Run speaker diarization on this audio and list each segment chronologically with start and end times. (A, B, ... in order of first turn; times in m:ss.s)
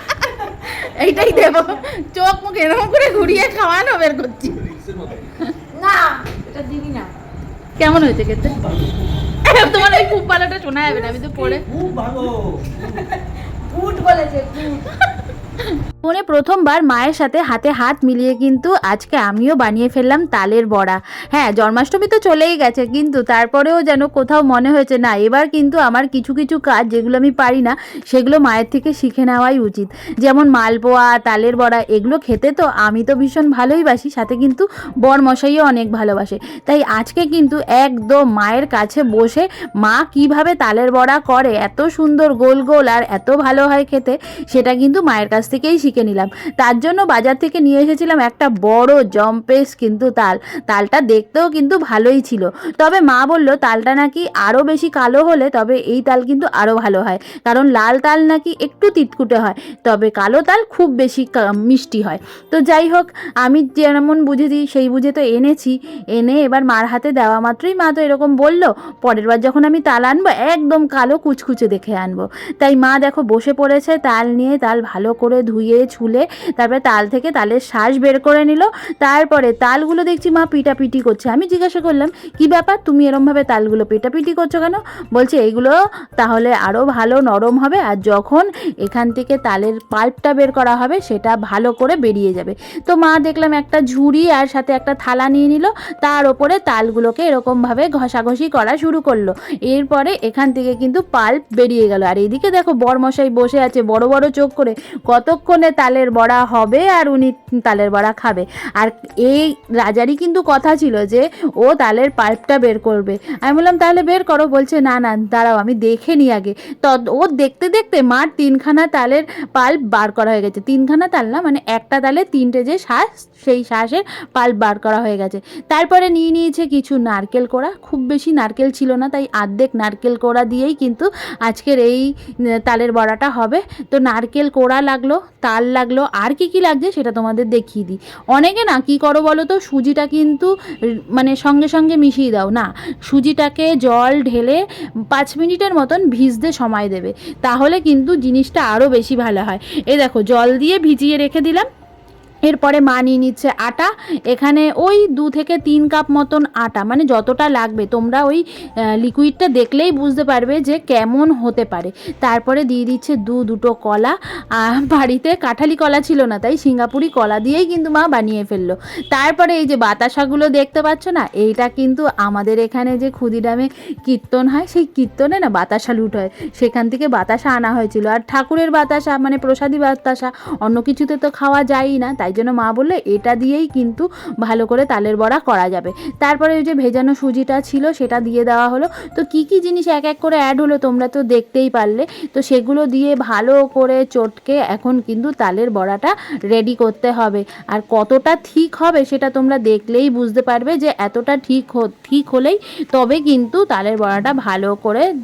0:00.2-0:00.5 A
0:00.7-0:04.7 B
0:01.1-0:01.8 A
0:04.8-0:05.2 C
0:05.8-0:07.1 A
0:07.8-0:08.6 B
0:08.4-0:09.4 C
0:09.5-0:11.6 B
0:11.2-0:11.5 A
0:11.7-0:13.0 C
0:12.9-0:13.2 A
0:13.7-0:14.9 A
0:15.6-2:12.0 B
2:12.7-2:20.5 B
2:21.2-2:24.6 B
2:25.1-2:31.7 B
2:32.5-2:38.4 B
2:39.0-3:25.1 B